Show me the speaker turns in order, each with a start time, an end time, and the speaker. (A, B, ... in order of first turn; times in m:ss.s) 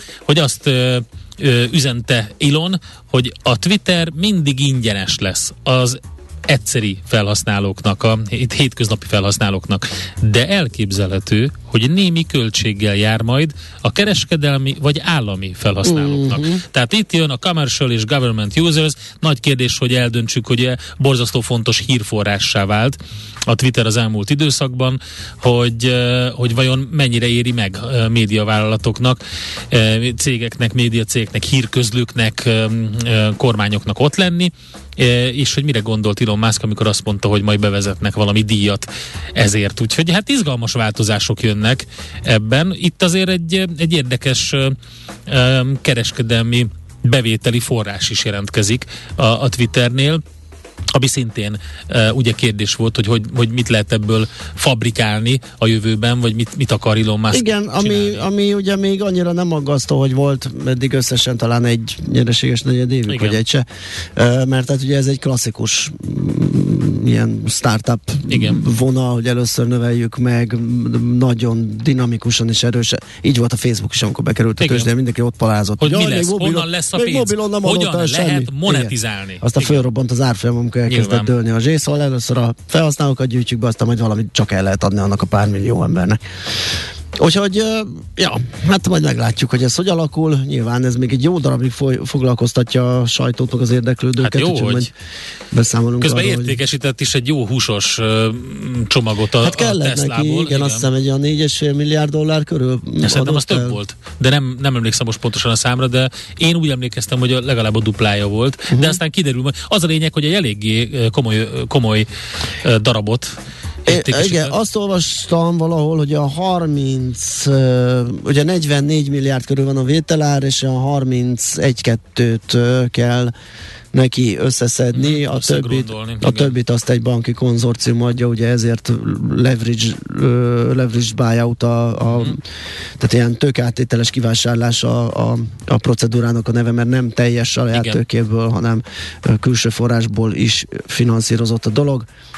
0:00.3-0:29.2 A
0:15.8-0:16.6 B
0:29.7-0:44.8 A
0:45.3-0:50.2 A
0:50.9-0:58.2 A
0:57.3-1:03.6 B
1:03.1-1:03.4 A
1:04.2-1:26.2 B
1:08.3-1:08.6 A
1:14.6-1:14.9 A
1:15.8-1:19.8 A
1:20.9-1:21.3 A
1:27.2-1:34.9 B
1:34.2-1:34.9 A
1:35.5-1:36.6 B
1:36.0-1:40.9 A
1:39.4-1:43.8 B
1:43.0-1:52.1 A
1:48.7-1:49.0 B
1:52.6-1:53.3 A
1:53.8-1:54.6 A
1:53.9-2:03.3 B
2:03.9-2:12.4 B
2:04.9-2:06.6 A
2:12.1-2:12.4 A
2:13.0-2:22.1 B
2:17.7-2:18.0 A